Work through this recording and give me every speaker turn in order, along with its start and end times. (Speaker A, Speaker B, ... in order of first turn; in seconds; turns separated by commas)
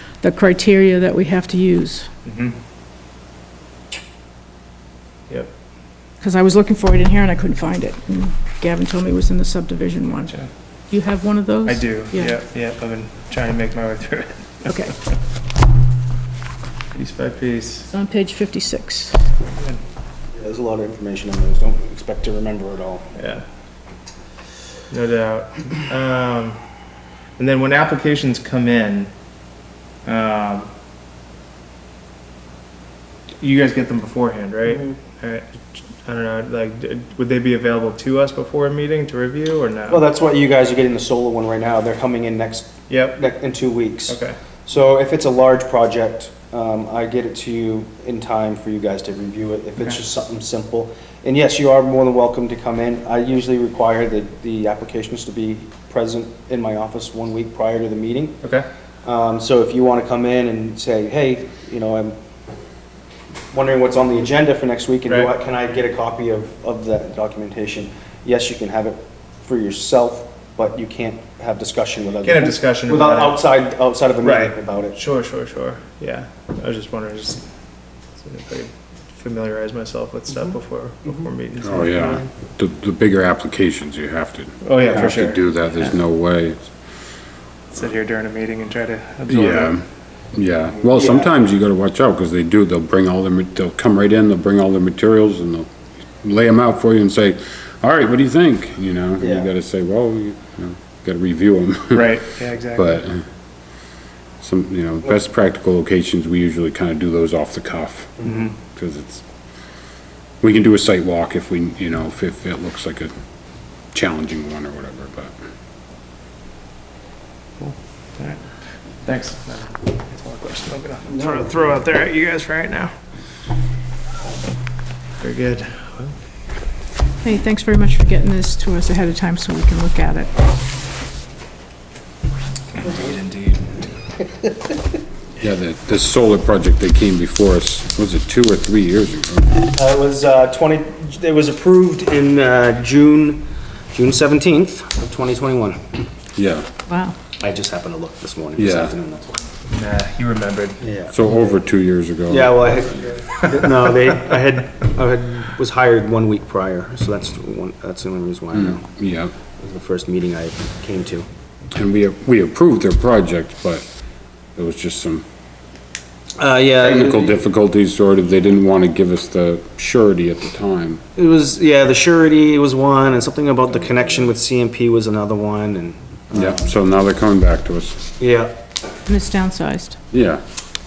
Speaker A: 0.2-2.1, Speaker B: 2.3-2.6, Speaker A: 6.2-12.4, Speaker B: 11.7-14.7, Speaker A: 14.7-14.9, Speaker B: 16.9-17.9, Speaker A: 17.9-19.2, Speaker C: 20.4-23.1, Speaker B: 23.2-23.4, Speaker B: 24.9-26.6, Speaker B: 27.4-29.1, Speaker B: 30.1-30.7, Speaker B: 33.4-35.5, Speaker B: 36.0-40.0, Speaker C: 39.9-58.4, Speaker B: 42.9-43.2, Speaker B: 44.1-44.3, Speaker C: 59.0-62.2, Speaker C: 63.5-75.0, Speaker B: 72.2-73.4, Speaker B: 74.2-77.4, Speaker B: 78.2-82.3, Speaker D: 81.6-86.7, Speaker B: 84.6-85.4, Speaker B: 87.7-89.8, Speaker D: 89.3-95.7, Speaker C: 91.0-91.3, Speaker D: 96.2-102.2, Speaker C: 99.2-99.5, Speaker B: 101.9-103.0, Speaker D: 102.8-103.2, Speaker D: 104.4-108.2, Speaker B: 108.2-108.5, Speaker D: 108.8-109.2, Speaker D: 110.4-113.1, Speaker D: 113.9-115.3, Speaker B: 117.6-118.4, Speaker B: 119.0-122.9, Speaker B: 125.2-126.1, Speaker A: 127.2-130.3, Speaker B: 132.8-133.8, Speaker D: 135.4-139.6, Speaker C: 139.6-146.0, Speaker D: 146.4-146.7, Speaker A: 146.9-147.2, Speaker C: 147.4-149.4, Speaker D: 148.6-148.9, Speaker B: 149.7-150.8, Speaker C: 150.8-151.1, Speaker D: 151.1-152.6, Speaker C: 152.3-158.9, Speaker D: 158.5-159.3, Speaker C: 159.6-161.3, Speaker D: 161.7-163.9, Speaker D: 164.6-165.2, Speaker C: 166.4-167.3, Speaker D: 166.8-171.0, Speaker C: 171.2-176.7, Speaker D: 176.3-178.1, Speaker C: 178.2-178.5, Speaker A: 179.1-180.0, Speaker D: 180.1-180.4